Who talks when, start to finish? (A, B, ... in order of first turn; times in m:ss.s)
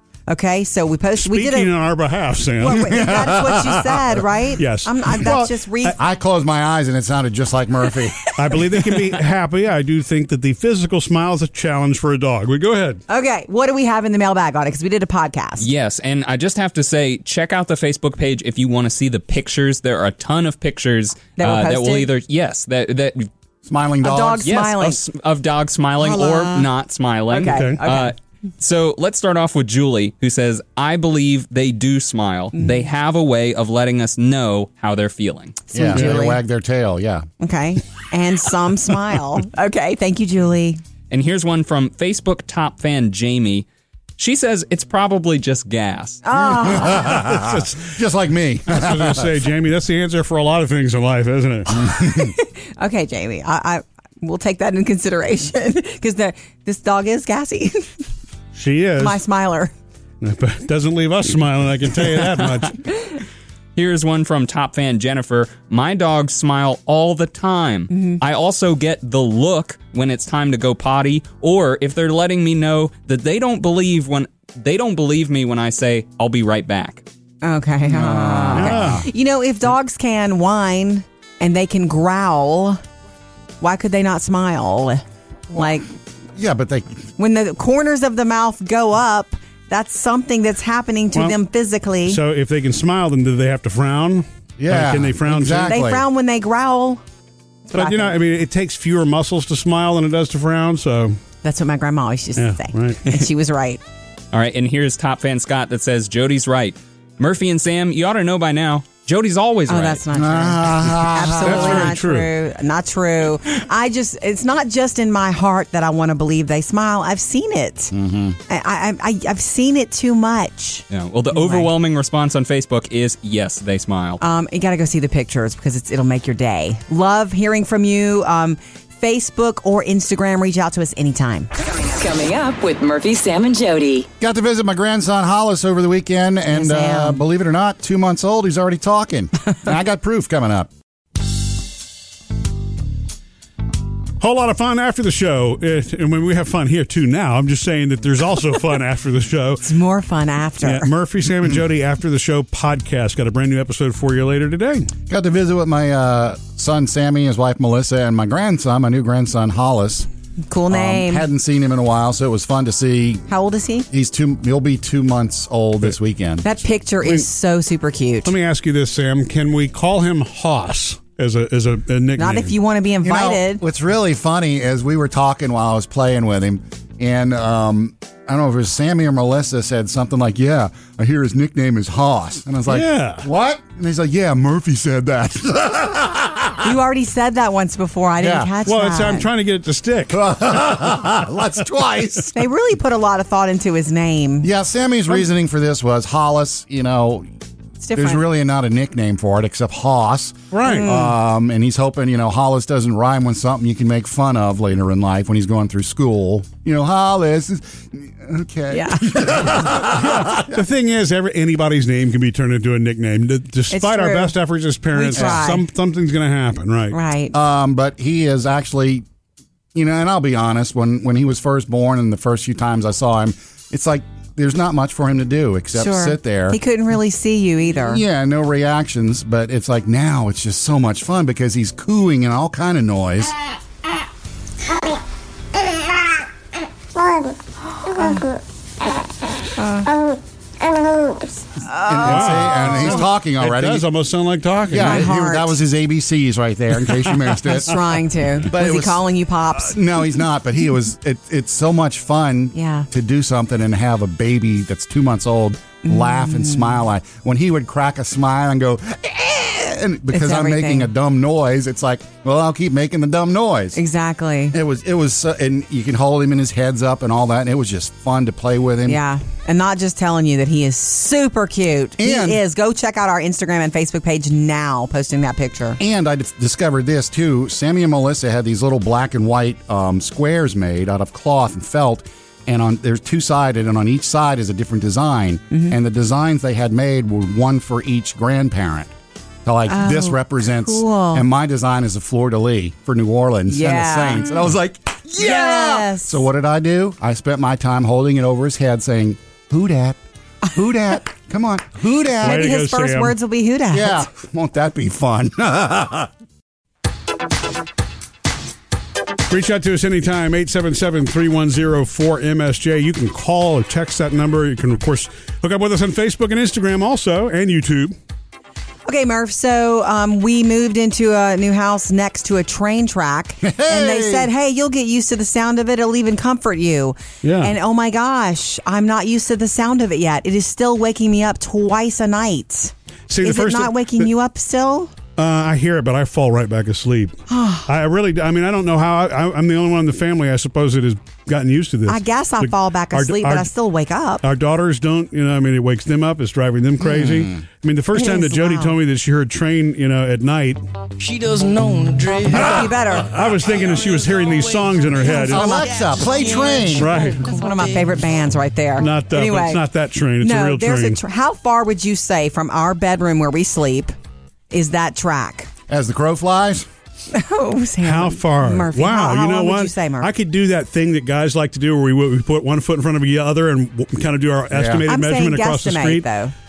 0:00.3-0:01.8 A
0:01.2-0:03.1 B
0:02.6-0:06.0 A
0:02.8-0:04.2 C
0:04.6-0:06.0 B
0:06.0-0:08.3 C
0:08.4-0:13.0 B
0:13.1-0:15.7 A
0:15.6-0:23.3 D
0:21.4-0:22.1 A
0:23.6-0:24.6 C
0:24.0-0:25.0 A
0:24.4-0:35.6 D
0:26.0-0:26.7 A
0:27.3-0:28.1 A
0:27.4-0:27.8 B
0:35.7-0:36.4 A
0:35.7-0:37.3 C
0:37.4-0:40.8 A
0:41.1-0:43.7 D
0:44.2-0:46.2 D
0:46.2-0:47.2 A
0:46.6-0:49.3 C
0:47.1-0:47.9 B
0:48.7-0:51.9 B
0:51.8-0:52.3 C
0:51.9-0:57.9 A
0:58.6-0:59.2 B
0:59.0-0:59.7 A
1:00.2-1:02.8 B
1:03.8-1:17.0 D
1:07.9-1:08.2 A
1:17.4-1:22.8 A
1:17.8-1:19.1 C
1:18.5-1:19.0 B
1:23.6-1:25.9 A
1:26.4-1:27.1 C
1:27.2-1:32.2 A
1:32.1-1:35.8 B
1:34.6-1:36.0 C
1:35.6-1:37.0 A
1:37.7-1:38.1 A
1:37.7-1:41.2 B
1:41.4-1:43.8 A
1:42.4-1:43.1 B
1:44.3-1:50.0 D
1:49.7-1:57.9 A
1:50.1-1:51.9 C
1:51.4-1:52.3 B
1:57.9-1:58.4 C
1:58.5-2:01.7 A
2:00.9-2:04.2 D
2:04.2-2:11.5 A
2:11.6-2:14.1 E
2:14.2-2:20.7 C
2:16.5-2:17.2 A
2:24.2-2:29.6 B
2:29.6-2:30.9 A
2:30.6-2:34.9 B
2:35.1-2:40.1 C
2:40.5-2:41.3 A
2:40.7-2:43.3 C
2:43.3-2:43.9 A
2:43.9-2:46.4 C
2:46.4-2:48.3 A
2:47.0-2:47.3 B
2:48.2-2:52.6 B
2:52.2-2:53.6 A
2:53.0-3:06.8 C
3:02.7-3:03.3 B
3:06.6-3:09.3 A
3:08.2-3:08.5 C
3:08.6-3:10.3 B
3:10.1-3:12.4 C
3:12.3-3:14.5 A
3:14.4-3:17.3 C
3:17.8-3:18.2 A
3:17.9-3:30.5 C
3:20.5-3:20.9 B
3:20.6-3:21.1 A
3:28.7-3:29.4 A
3:29.6-3:37.0 B
3:33.7-3:34.3 A
3:34.9-3:35.6 A
3:35.2-3:35.4 C
3:36.9-3:37.4 A
3:37.3-3:39.0 C
3:39.7-3:46.6 C
3:45.8-3:48.0 A
3:47.8-3:53.4 C
3:57.9-3:58.3 A
3:59.6-3:59.9 A
4:00.9-4:01.2 E
4:01.6-4:03.0 A
4:01.8-4:03.9 C
4:02.0-4:05.1 B
4:04.7-4:23.8 C
4:04.8-4:05.6 A
4:07.4-4:10.0 A
4:12.5-4:12.9 A
4:15.9-4:16.8 A
4:20.1-4:20.9 A
4:23.8-4:24.6 A
4:24.5-4:29.0 C
4:28.8-4:35.8 A
4:32.0-4:32.4 C
4:35.8-4:48.9 C
4:49.4-5:02.5 C
4:49.7-4:51.2 A
4:53.5-4:54.3 A
4:55.2-4:56.2 A
5:02.2-5:04.1 A
5:02.2-5:03.2 B
5:03.7-5:06.1 C
5:09.3-5:17.9 B
5:18.9-5:34.9 A
5:23.4-5:24.3 C
5:27.2-5:27.5 B
5:33.1-5:34.1 B
5:35.2-5:43.5 B
5:37.3-5:37.7 A
5:41.9-5:44.2 A
5:44.2-5:50.6 B
5:46.8-5:47.4 C
5:47.9-5:48.8 A
5:51.0-5:52.8 F
5:52.3-5:53.1 A
5:53.0-5:55.6 B
5:53.6-5:57.9 F
5:55.1-5:59.6 A
5:55.3-5:56.9 C
5:56.8-5:57.3 B
5:58.8-6:01.0 B
6:00.2-6:03.9 A
6:04.5-6:05.5 A
6:05.7-6:06.7 C
6:07.1-6:10.1 A
6:07.8-6:16.1 B
6:14.5-6:14.8 C
6:14.9-6:16.3 A